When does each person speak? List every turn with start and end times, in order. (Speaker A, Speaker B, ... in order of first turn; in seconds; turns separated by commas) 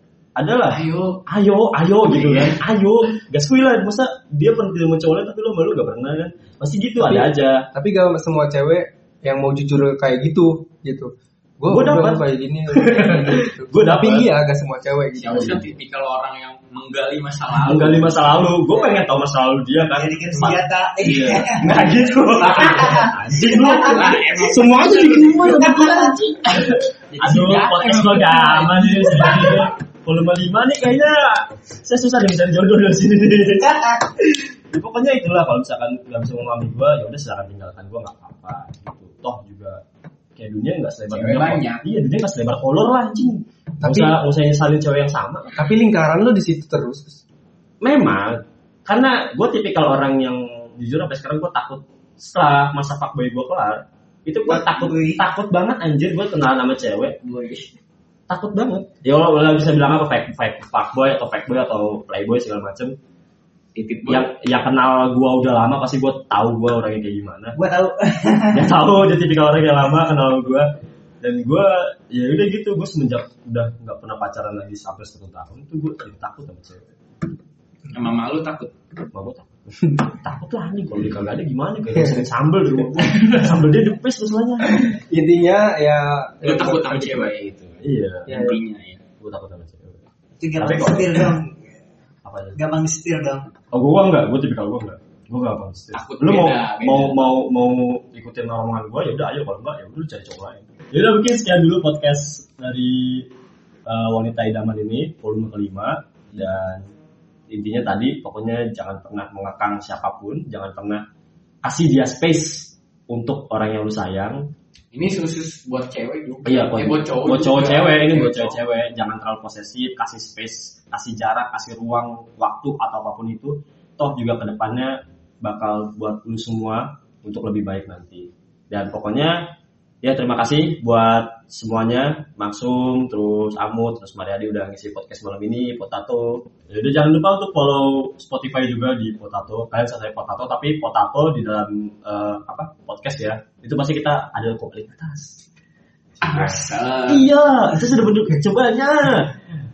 Speaker A: 0.4-7.7, Speaker B: 0.7-1.2, Speaker B: 2.0-2.6, Speaker C: 7.0-15.7, Speaker A: 11.7-14.3, Speaker B: 15.2-18.2, Speaker A: 15.3-15.7, Speaker A: 17.6-34.0, Speaker D: 19.9-23.1, Speaker B: 22.4-26.1, Speaker B: 27.1-29.7, Speaker A: 34.6-39.8, Speaker A: 40.4-45.6, Speaker B: 41.1-41.8, Speaker C: 43.8-44.1, Speaker C: 45.5-47.2, Speaker A: 47.8-57.2, Speaker D: 54.5-55.2, Speaker B: 57.2-57.7, Speaker A: 58.3-63.0, Speaker B: 63.8-64.3, Speaker A: 64.1-67.6, Speaker D: 67.6-68.8, Speaker A: 68.5-70.7, Speaker A: 71.2-76.9, Speaker B: 77.9-78.7, Speaker A: 79.1-84.7, Speaker C: 82.0-82.3, Speaker C: 82.9-83.4, Speaker C: 84.7-87.3, Speaker B: 86.4-89.0, Speaker A: 87.8-88.3, Speaker C: 88.3-88.6, Speaker A: 89.2-91.3, Speaker D: 90.4-91.8, Speaker A: 92.2-92.6, Speaker D: 92.6-93.5, Speaker A: 93.7-103.3, Speaker B: 95.9-97.2, Speaker A: 103.9-106.9, Speaker A: 107.5-111.0, Speaker A: 111.6-114.5, Speaker B: 114.9-118.6, Speaker A: 116.5-129.4, Speaker A: 130.0-145.4, Speaker B: 146.2-147.2, Speaker A: 146.2-149.4